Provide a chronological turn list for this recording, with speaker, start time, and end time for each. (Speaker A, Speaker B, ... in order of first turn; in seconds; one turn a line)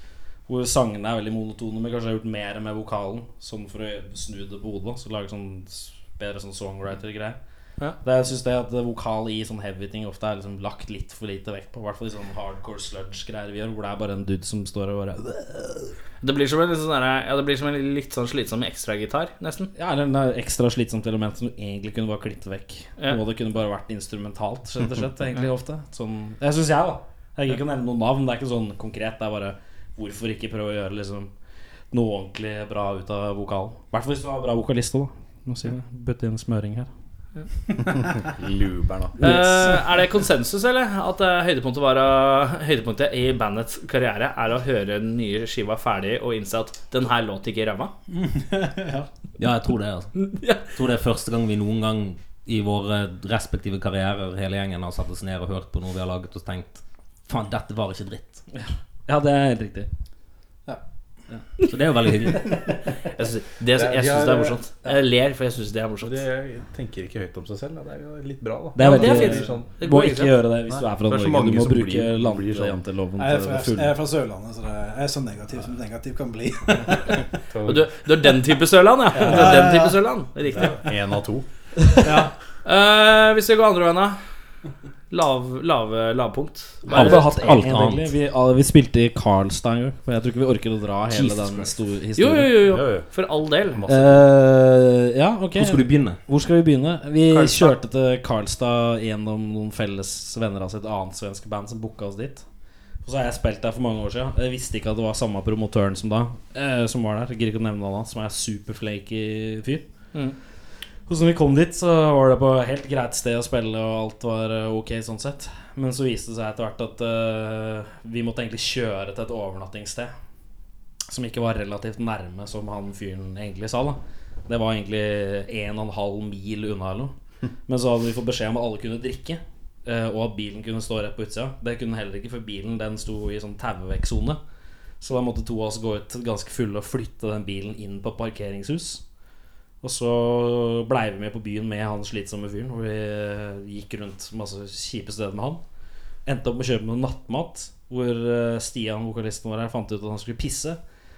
Speaker A: 0.5-7.4
Speaker A: 8.0-15.9
Speaker B: 16.2-19.7
Speaker A: 19.8-31.3
Speaker A: 31.9-36.9
Speaker C: 38.2-39.2
Speaker A: 39.2-39.8
Speaker B: 39.2-47.9
Speaker D: 48.1-49.1
Speaker E: 49.4-50.1
Speaker B: 50.2-50.6
Speaker E: 50.6-58.4
Speaker A: 58.5-59.9
Speaker E: 61.6-62.6
Speaker B: 63.2-66.2
Speaker C: 63.2-64.6
Speaker C: 66.0-69.7
Speaker A: 68.8-73.9
Speaker B: 68.8-70.3
Speaker C: 70.7-72.8
Speaker D: 73.2-77.2
Speaker C: 77.5-77.9
Speaker B: 77.6-80.8
Speaker D: 79.2-79.9
Speaker C: 80.7-81.5
Speaker D: 82.0-82.3
Speaker B: 82.6-84.2
Speaker B: 85.1-87.6
Speaker A: 86.9-92.6
Speaker E: 86.9-88.1
Speaker E: 91.1-91.7
Speaker B: 92.2-93.8
Speaker C: 92.7-93.0
Speaker C: 93.6-94.2
Speaker A: 93.9-102.4
Speaker E: 95.5-96.2
Speaker B: 97.3-97.7
Speaker A: 103.0-109.8
Speaker A: 111.1-120.1
Speaker A: 121.1-127.1
Speaker A: 127.7-134.4
Speaker A: 135.0-139.0
Speaker A: 139.8-145.6
Speaker A: 146.2-150.8